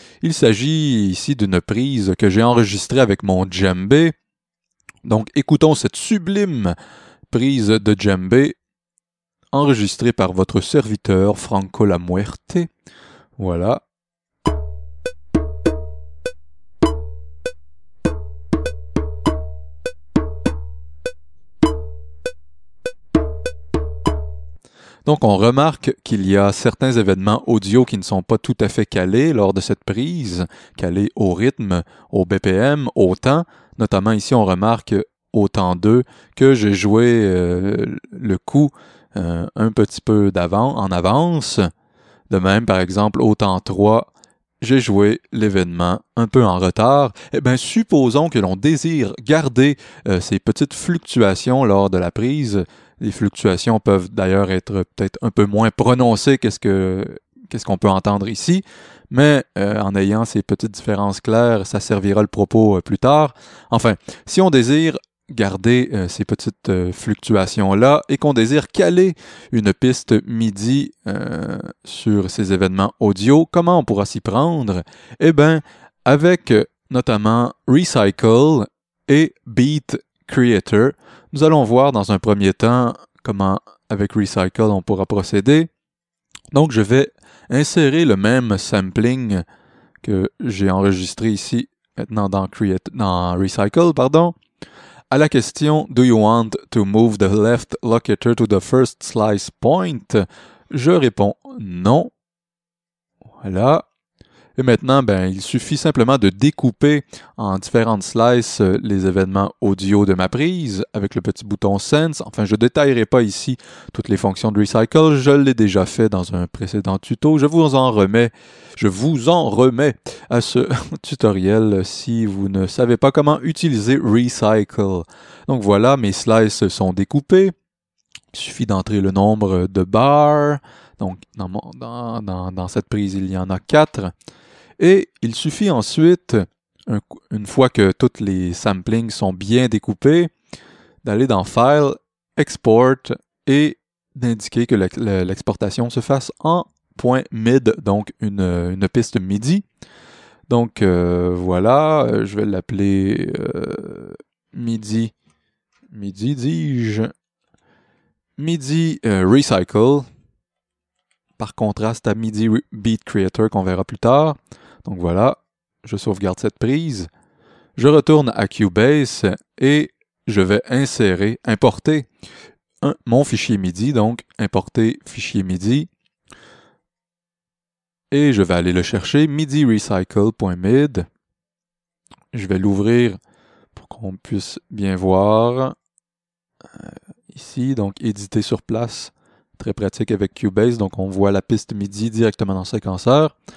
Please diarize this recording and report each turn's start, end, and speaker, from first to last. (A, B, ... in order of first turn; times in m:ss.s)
0:00.2-0:04.2 A
0:05.0-0:06.8 A
0:07.3-0:08.6 A
0:09.5-0:12.7 A
0:13.4-0:13.8 A
0:25.0-0:41.7 A
0:42.3-0:44.1 A
0:44.6-1:25.7 A
1:26.5-1:29.4 A
1:30.0-1:34.4 A
1:35.1-1:42.1 A
1:43.4-1:43.9 A
1:44.6-2:07.5 A
2:08.3-2:14.1 A
2:14.8-2:20.3 A
2:21.0-2:29.6 A
2:30.5-2:35.1 A
2:35.9-2:37.1 A
2:38.4-2:40.1 A
2:41.4-2:47.1 A
2:47.8-2:52.1 A
2:52.8-2:55.9 A
2:58.1-3:01.1 A
3:02.3-3:03.2 A
3:03.8-3:05.8 A
3:06.8-3:13.4 A